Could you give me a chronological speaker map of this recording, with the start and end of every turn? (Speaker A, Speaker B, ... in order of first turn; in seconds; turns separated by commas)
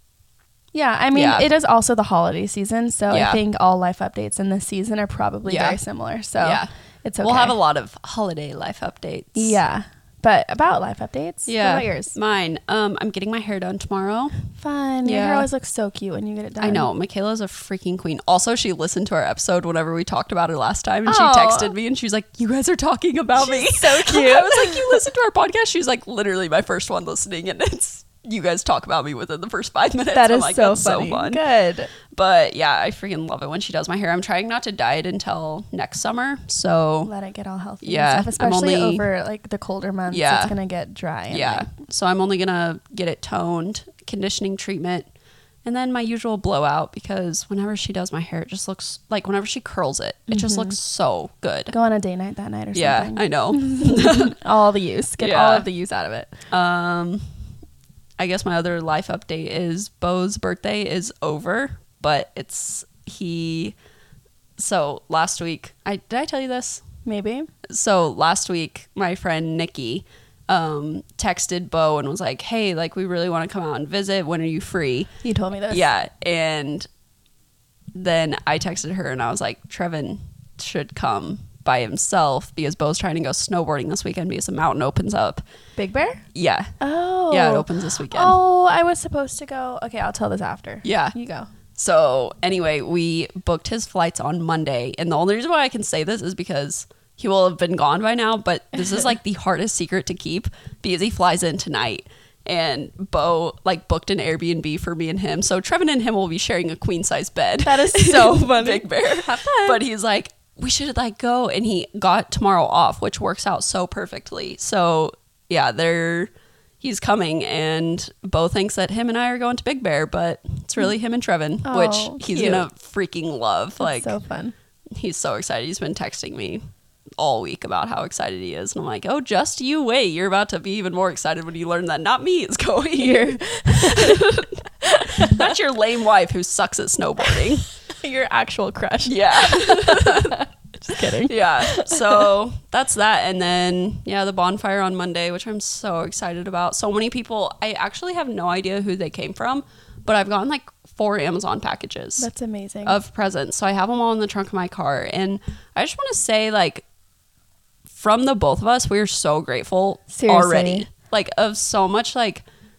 Speaker A: 0.7-7.6, Speaker B: 1.1-1.5, Speaker B: 3.1-3.4, Speaker B: 5.5-5.8, Speaker B: 6.4-6.7, Speaker B: 7.2-9.6, Speaker A: 9.3-12.1, Speaker B: 11.5-14.5, Speaker A: 14.6-16.9, Speaker B: 15.0-15.5, Speaker B: 16.6-31.4, Speaker A: 21.1-21.7, Speaker A: 23.4-25.1, Speaker A: 30.1-31.9, Speaker B: 32.0-37.1, Speaker A: 37.0-41.7, Speaker B: 37.8-39.0, Speaker B: 40.1-40.5, Speaker B: 41.3-45.1, Speaker B: 45.6-51.7, Speaker A: 50.3-50.8, Speaker A: 51.7-56.3, Speaker B: 52.7-54.4, Speaker B: 55.2-55.7, Speaker B: 56.5-57.2, Speaker B: 58.2-63.8, Speaker B: 64.6-66.8, Speaker A: 67.0-67.5, Speaker B: 67.7-75.1, Speaker A: 75.2-75.9, Speaker B: 75.7-76.9, Speaker B: 78.0-85.4, Speaker A: 85.8-86.2, Speaker B: 86.3-86.7, Speaker A: 86.8-91.5, Speaker B: 87.3-88.4, Speaker B: 90.8-91.2, Speaker B: 91.8-124.1, Speaker A: 107.6-109.8, Speaker A: 121.7-122.7, Speaker A: 123.8-124.5, Speaker B: 124.9-126.7, Speaker B: 127.2-137.7, Speaker A: 133.0-135.5, Speaker A: 137.3-142.3, Speaker B: 139.1-140.4, Speaker B: 140.9-152.3, Speaker A: 152.2-153.0, Speaker B: 152.8-156.8, Speaker B: 157.9-162.4, Speaker A: 160.1-160.9